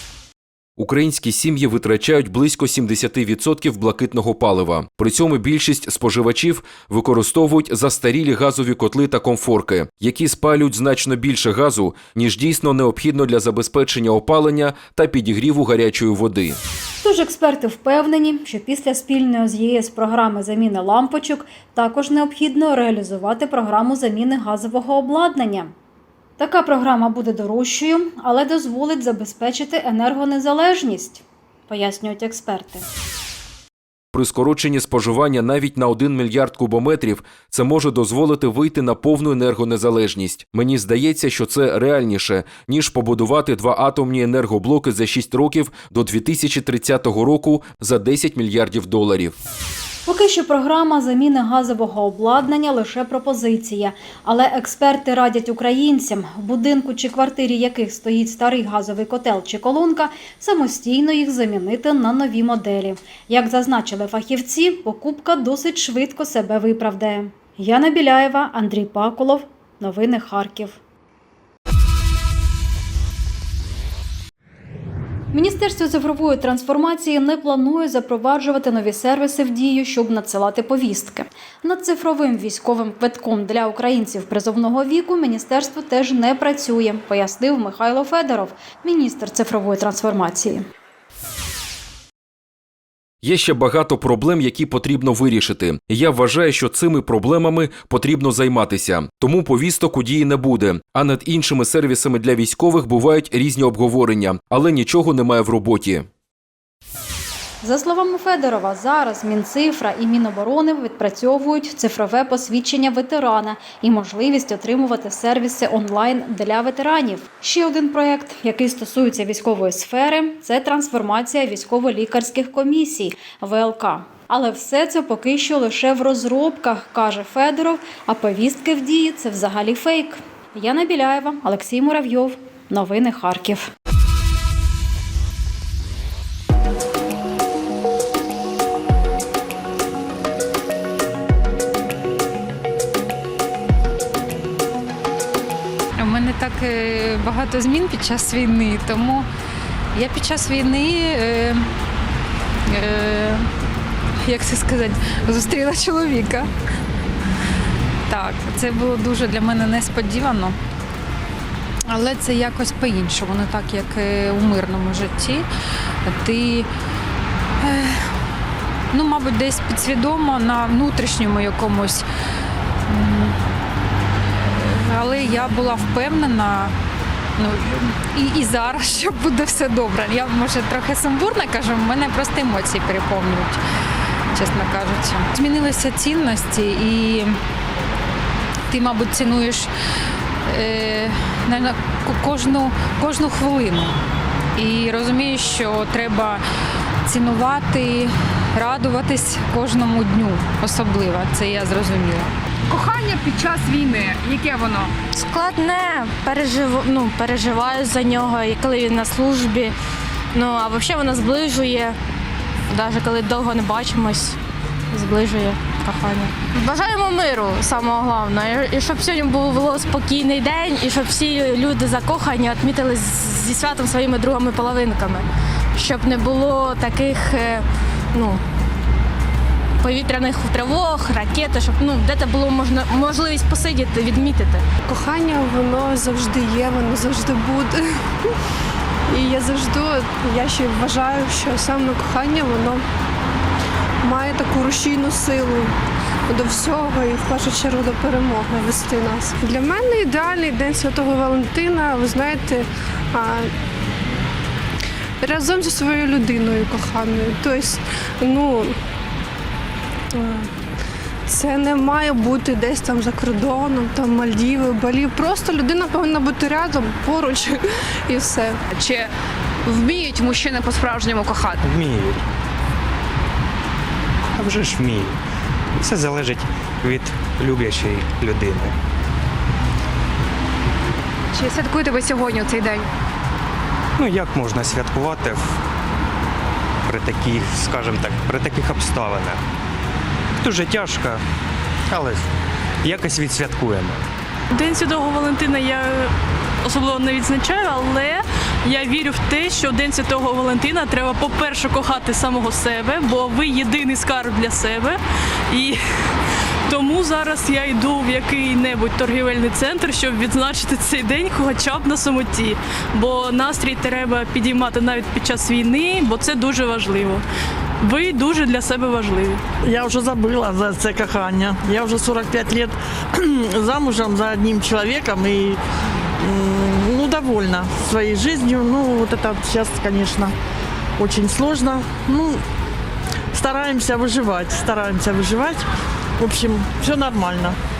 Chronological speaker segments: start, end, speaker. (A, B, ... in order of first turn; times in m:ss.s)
0:00.8-0:16.6 A
0:17.0-0:25.7 B
0:26.4-0:32.8 B
0:34.1-0:49.3 A
0:50.0-1:10.8 B
1:15.3-1:30.6 B
1:33.2-1:46.1 A
1:47.6-2:13.7 B
2:26.0-2:29.3 C
2:29.9-2:31.7 C
2:32.7-2:33.5 C
2:34.2-2:36.5 C
2:38.1-2:40.6 C
2:41.9-2:45.5 C
2:46.0-2:46.7 C
2:47.6-2:48.0 C
2:48.9-2:52.0 C
2:52.9-2:53.4 C
2:54.5-2:56.8 C
2:57.4-3:03.6 C
3:04.3-3:07.4 C
3:08.7-3:09.7 C
3:10.4-3:14.0 C
3:14.5-3:16.4 C
3:17.0-3:22.3 C
3:25.1-3:29.7 D
3:30.3-3:32.0 D
3:32.7-3:34.4 D
3:34.9-3:45.2 D
3:45.8-3:48.4 D
3:49.8-3:54.6 D
3:54.9-3:57.8 E
3:59.1-4:02.8 E
4:04.0-4:05.7 E
4:06.3-4:13.5 E
4:15.2-4:18.8 E
4:20.2-4:20.4 E
4:21.3-4:27.5 E
4:28.1-4:28.6 E
4:29.9-4:31.5 F
4:31.7-4:32.2 G
4:34.5-4:35.1 G
4:35.8-4:38.7 G
4:41.4-4:42.8 F
4:44.0-4:45.5 G
4:46.9-4:49.4 G
4:50.4-4:51.2 G
4:51.9-4:52.2 G
4:52.8-4:54.0 G
4:54.5-5:05.0 H
5:05.5-5:05.8 H
5:06.7-5:17.2 H
5:17.8-5:19.4 H
5:19.6-5:22.8 I
5:23.2-5:25.6 I
5:26.2-5:30.3 I
5:31.0-5:32.4 I
5:33.3-5:35.6 I
5:36.2-5:37.6 I